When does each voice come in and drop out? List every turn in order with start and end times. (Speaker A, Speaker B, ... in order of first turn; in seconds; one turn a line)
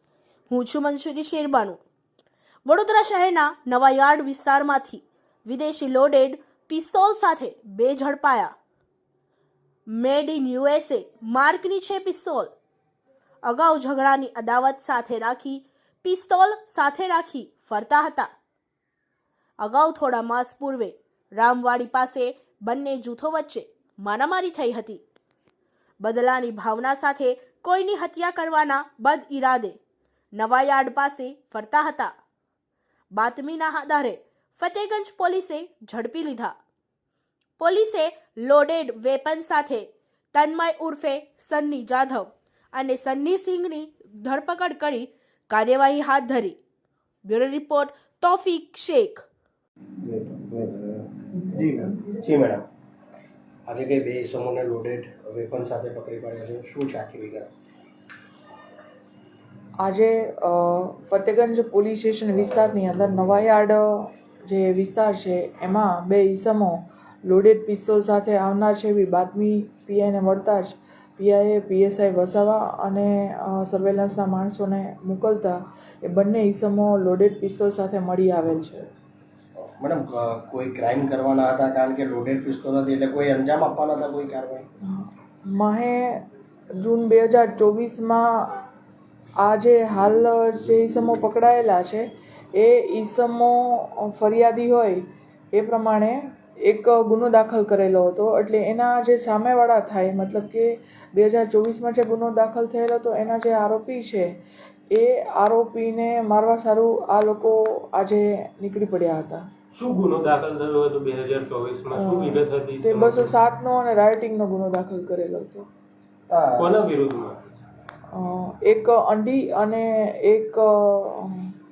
Speaker A: 0.5-1.8
Speaker A: 2.6-8.5
Speaker A: 9.9-12.5
Speaker A: 13.4-18.3
Speaker A: 19.6-25.0
Speaker A: 26.0-29.8
Speaker A: 30.3-32.1
Speaker A: 33.1-36.5
Speaker A: 37.6-46.6
Speaker A: 47.2-49.2
Speaker B: 50.0-52.6
Speaker B: 53.7-57.5
Speaker C: 59.8-78.9
Speaker B: 79.5-84.7
Speaker C: 84.8-86.2
Speaker C: 86.8-88.6
Speaker C: 89.4-104.4
Speaker C: 104.9-109.5
Speaker D: 109.7-113.3
Speaker C: 111.9-115.7
Speaker B: 116.3-116.8
Speaker D: 116.6-117.4
Speaker C: 118.1-121.5